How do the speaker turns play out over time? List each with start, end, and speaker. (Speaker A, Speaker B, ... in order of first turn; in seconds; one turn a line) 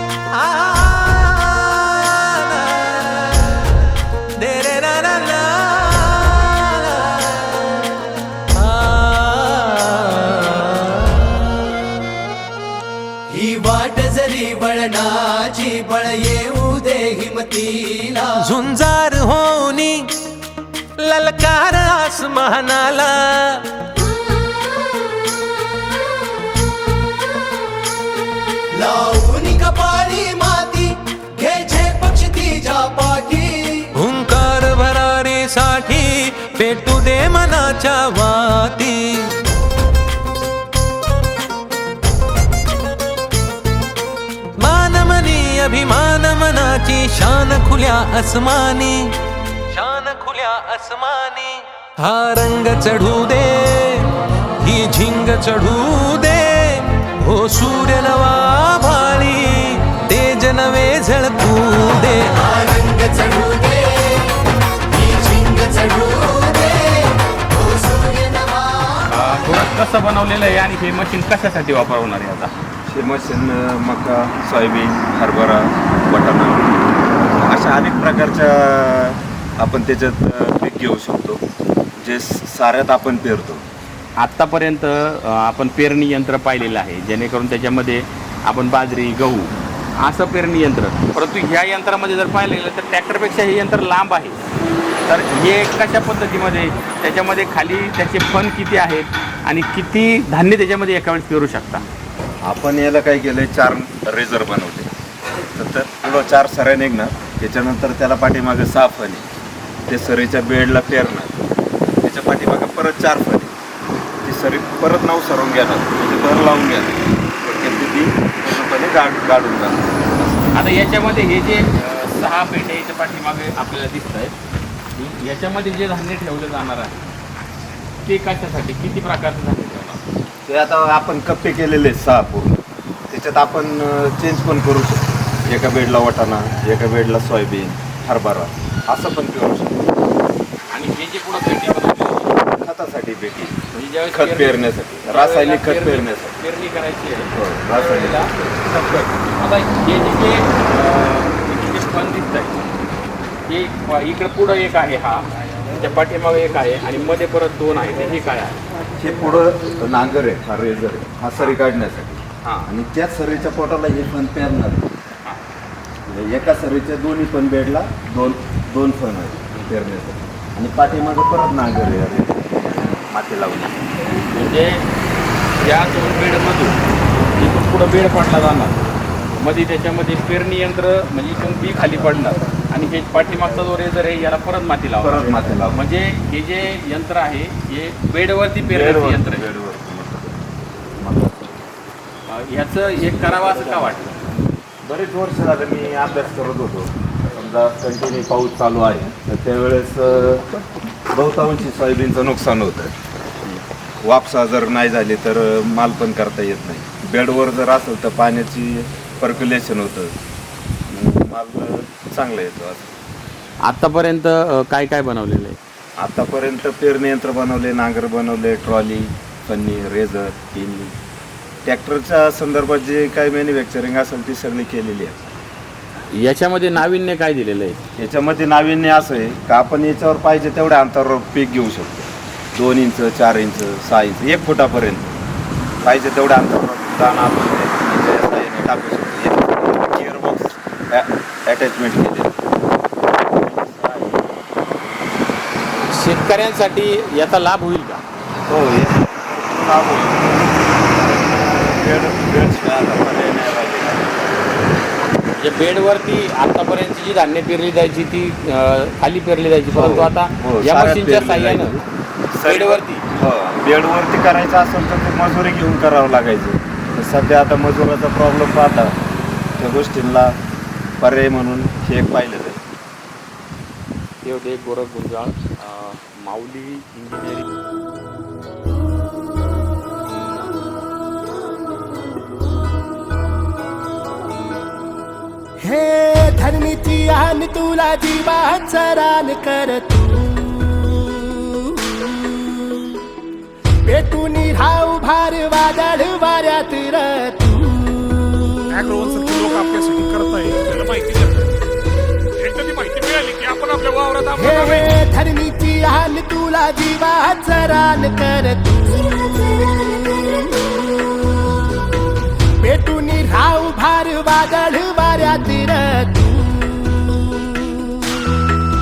Speaker A: 0.3-3.4
Speaker A: 4.3-7.5
Speaker A: 8.5-11.3
Speaker B: 13.3-18.3
Speaker A: 18.4-20.1
Speaker A: 21.0-23.6
Speaker B: 28.7-33.9
Speaker A: 33.9-39.3
Speaker A: 44.6-49.1
Speaker A: 49.7-54.1
Speaker A: 54.6-62.5
Speaker B: 62.6-64.1
Speaker B: 65.0-68.7
Speaker C: 69.1-72.5
Speaker D: 72.9-81.4
Speaker D: 82.0-83.7
Speaker C: 84.2-94.4
Speaker C: 95.1-101.9
Speaker D: 102.4-104.9
Speaker D: 105.5-109.3
Speaker D: 109.9-111.4
Speaker D: 112.0-113.6
Speaker D: 114.2-119.9
Speaker C: 120.5-124.3
Speaker C: 125.0-127.1
Speaker C: 128.0-130.0
Speaker D: 130.5-139.9
Speaker C: 140.7-142.4
Speaker D: 142.5-143.6
Speaker C: 143.7-152.6
Speaker D: 144.1-146.4
Speaker D: 147.3-148.6
Speaker C: 153.5-158.6
Speaker D: 159.0-164.9
Speaker C: 162.4-162.7
Speaker D: 166.1-173.8
Speaker C: 174.3-174.8
Speaker C: 175.6-176.8
Speaker C: 177.4-178.8
Speaker C: 179.4-189.5
Speaker D: 185.0-185.8
Speaker D: 188.6-190.4
Speaker D: 191.0-191.6
Speaker C: 192.3-194.3
Speaker D: 194.8-200.5
Speaker D: 201.1-202.9
Speaker D: 204.0-210.2
Speaker D: 210.9-212.9
Speaker C: 213.7-215.6
Speaker D: 216.0-220.9
Speaker D: 221.7-225.4
Speaker C: 226.1-227.8
Speaker D: 228.0-235.2
Speaker D: 235.8-242.3
Speaker C: 243.4-244.2
Speaker C: 245.8-248.0
Speaker D: 248.5-254.4
Speaker C: 255.4-261.7
Speaker D: 259.7-269.0
Speaker C: 262.4-263.1
Speaker D: 269.6-270.4
Speaker D: 271.0-272.6
Speaker C: 274.2-277.5
Speaker E: 285.6-292.6
Speaker E: 293.8-298.3
Speaker F: 298.7-301.5
Speaker F: 302.4-304.9
Speaker E: 304.4-311.5
Speaker E: 312.6-318.4